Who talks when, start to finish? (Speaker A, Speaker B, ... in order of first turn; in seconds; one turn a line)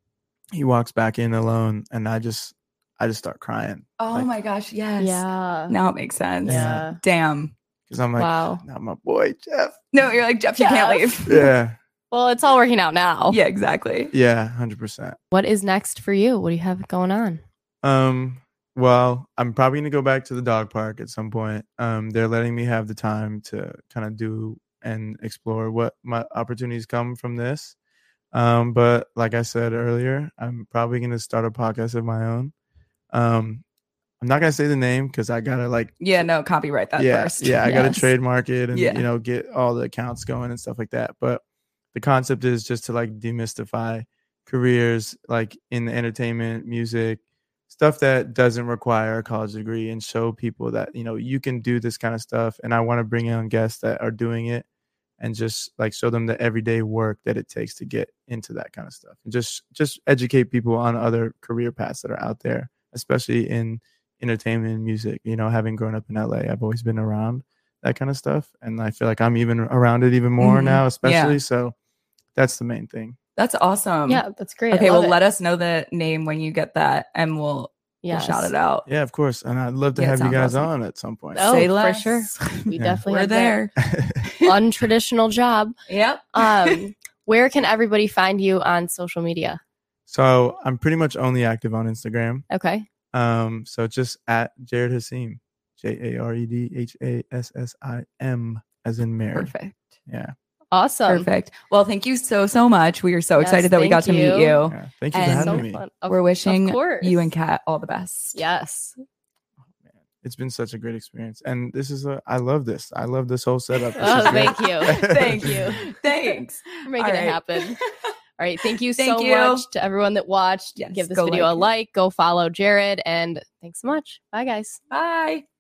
Speaker A: 0.5-4.3
Speaker B: 4.0-7.5
Speaker C: 5.0-5.8
Speaker C: 6.5-7.0
Speaker A: 6.5-6.8
Speaker A: 7.9-9.8
Speaker C: 8.2-8.6
Speaker B: 9.9-11.5
Speaker C: 10.6-11.2
Speaker A: 11.3-11.8
Speaker C: 12.1-13.4
Speaker B: 13.3-14.1
Speaker A: 14.1-15.2
Speaker C: 15.3-17.4
Speaker A: 17.8-27.8
Speaker A: 28.3-32.5
Speaker A: 33.1-33.6
Speaker A: 34.2-36.0
Speaker B: 36.0-38.1
Speaker A: 37.0-54.7
Speaker B: 38.7-39.1
Speaker A: 55.2-71.8
Speaker B: 70.4-71.4
Speaker A: 72.3-73.2
Speaker B: 73.4-78.9
Speaker C: 74.1-75.2
Speaker C: 78.0-78.5
Speaker A: 78.9-81.6
Speaker B: 80.0-80.7
Speaker C: 81.3-83.6
Speaker B: 81.3-83.7
Speaker A: 82.8-83.0
Speaker A: 83.8-84.2
Speaker B: 84.2-84.5
Speaker C: 84.4-85.7
Speaker B: 85.9-86.8
Speaker C: 86.3-89.6
Speaker A: 90.1-92.5
Speaker C: 92.5-92.9
Speaker A: 93.1-99.5
Speaker B: 99.3-100.0
Speaker A: 100.1-100.3
Speaker C: 100.7-101.3
Speaker B: 101.1-108.4
Speaker C: 103.4-104.7
Speaker A: 104.7-105.8
Speaker C: 105.2-107.3
Speaker C: 108.3-109.0
Speaker A: 109.8-115.8
Speaker C: 114.0-117.8
Speaker B: 114.0-117.8
Speaker C: 118.4-124.8
Speaker B: 118.6-119.7
Speaker B: 120.8-121.7
Speaker B: 124.9-125.4